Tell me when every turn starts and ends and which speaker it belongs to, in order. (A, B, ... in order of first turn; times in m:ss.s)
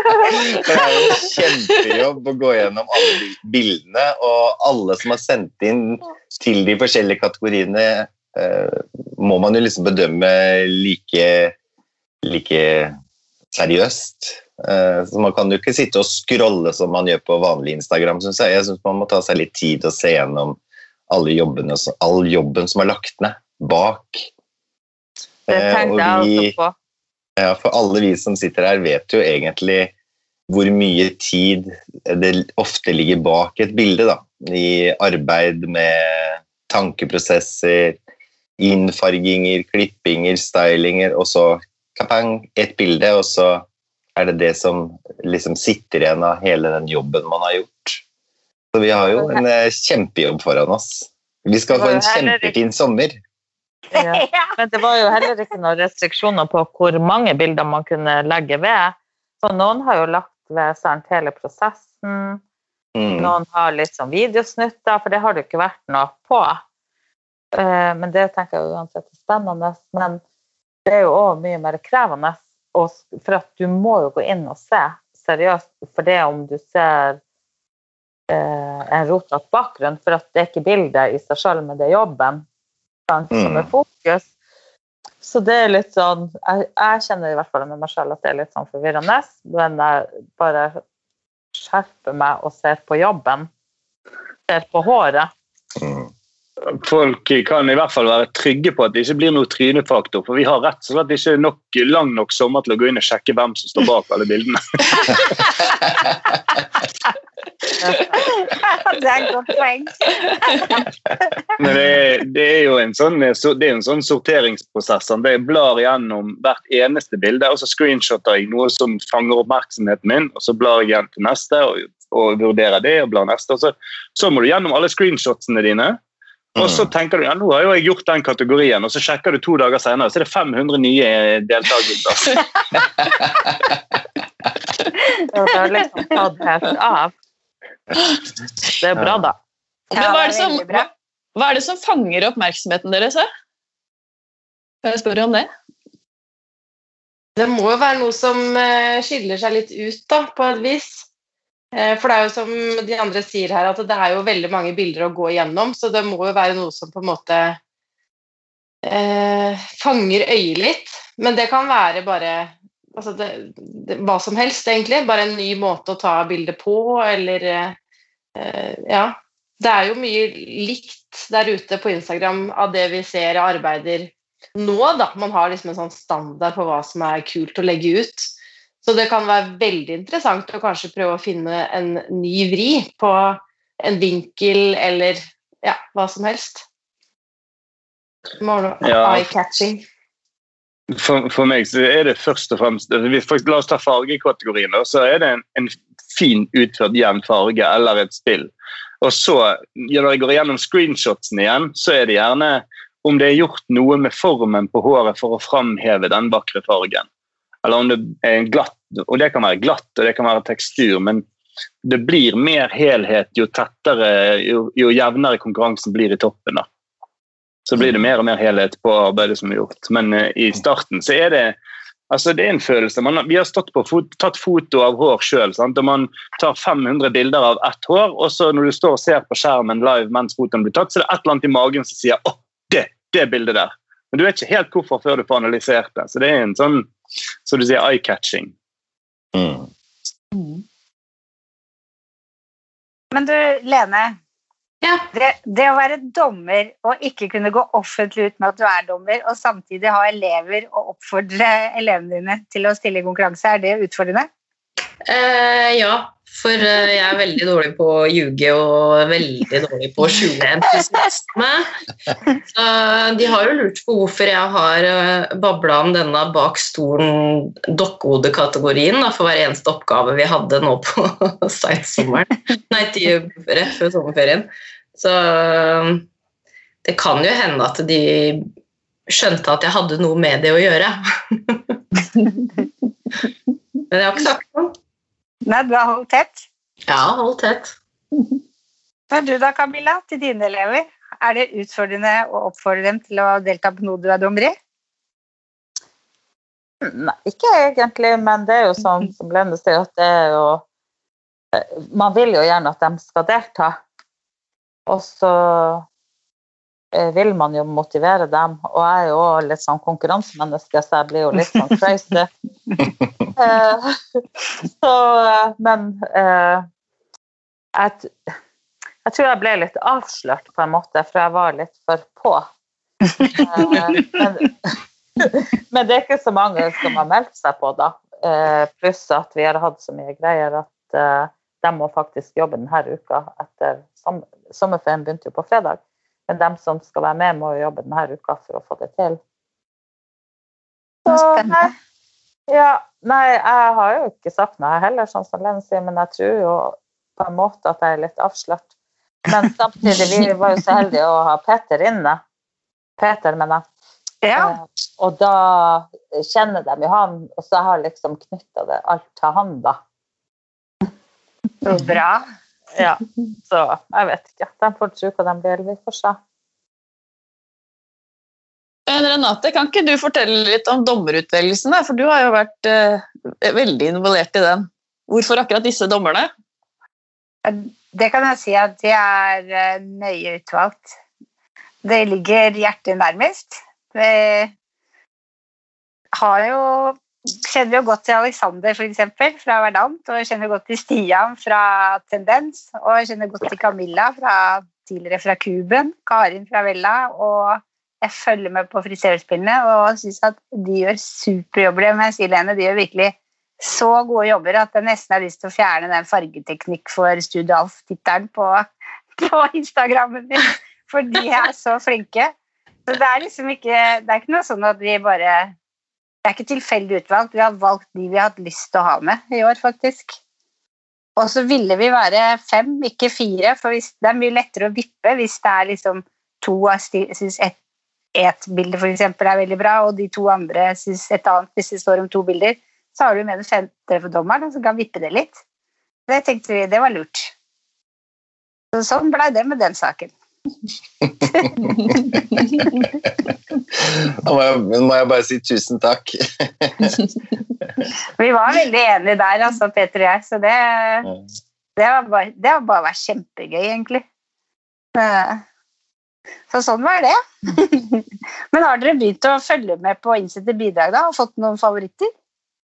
0:00.4-0:11.6 A
0:12.2-0:12.9 A
0:13.5-0:24.3 A
0:25.5-0:26.5 A
0:25.5-0:26.7 B
0:27.4-0:29.9 A
0:30.5-0:38.0 A
0:38.6-0:48.0 A
0:48.7-0:53.2 A
0:49.2-0:49.4 B
0:51.7-0:52.5 B
0:53.9-1:02.4 B
0:54.0-0:54.5 C
1:03.0-1:03.4 A
1:03.2-1:06.6 B
1:07.6-1:10.2 B
1:10.9-1:17.2 B
1:18.3-1:22.5 B
1:23.1-1:24.3 B
1:23.3-1:23.7 A
1:25.2-1:30.8 B
1:31.5-1:33.5 B
1:34.5-1:35.3 B
1:35.8-1:36.1 A
1:36.7-1:45.5 D
1:47.8-1:48.2 B
1:48.2-1:50.8 C
1:51.6-2:06.0 D
2:06.6-2:12.4 D
2:06.6-2:06.9 A
2:15.3-2:17.1 B
2:18.8-2:19.4 B
2:19.0-2:19.2 A
2:19.9-2:23.3 E
2:20.0-2:20.9 C
2:24.8-2:25.5 E
2:27.4-2:31.1 F
2:31.7-2:37.6 F
2:38.8-2:47.8 F
2:48.4-2:58.3 F
2:58.8-3:06.6 F
3:08.4-3:09.8 F
3:08.8-3:09.3 D
3:10.9-3:27.1 D
3:27.6-3:31.2 D
3:31.8-3:36.7 D
3:37.7-3:41.6 D
3:42.1-3:56.9 D
3:57.5-3:58.5 D
3:59.3-3:59.7 A
4:03.1-4:04.2 C
4:05.1-4:14.3 C
4:15.1-4:21.7 G
4:22.5-4:36.1 G
4:36.8-4:38.5 G
4:39.1-4:41.7 G
4:43.9-4:44.8 G
4:45.5-4:46.4 C
4:46.9-4:47.8 G
4:49.1-4:54.6 C
4:56.8-5:00.6 B
5:01.5-5:03.8 B
5:04.9-5:05.9 B
5:06.9-5:12.3 B
5:13.4-5:14.2 B
5:14.8-5:16.6 B
5:17.8-5:18.3 B
5:19.0-5:22.5 B
5:23.2-5:24.6 B
5:25.2-5:39.2 B
5:41.1-5:41.7 B
5:41.1-5:41.7 C
5:42.5-5:48.7 B
5:49.3-5:52.2 B
5:53.0-5:53.6 B
5:54.2-5:54.6 C
5:54.4-5:59.8 B
6:01.6-6:02.2 C
6:02.8-6:06.2 B
6:08.9-6:16.3 E
6:17.4-6:21.0 C
6:21.8-6:24.5 C
6:26.2-6:48.6 C
6:49.2-6:52.3 C
6:52.9-6:55.5 C
6:56.2-7:00.2 C
7:01.2-7:07.6 C
7:08.2-7:15.4 C
7:16.1-7:17.3 C
7:18.7-7:20.1 C
7:21.4-7:21.8 C
7:23.8-7:27.0 A
7:28.2-7:31.1 C
7:31.8-7:34.0 C
7:35.0-7:35.4 C
7:36.5-7:42.1 C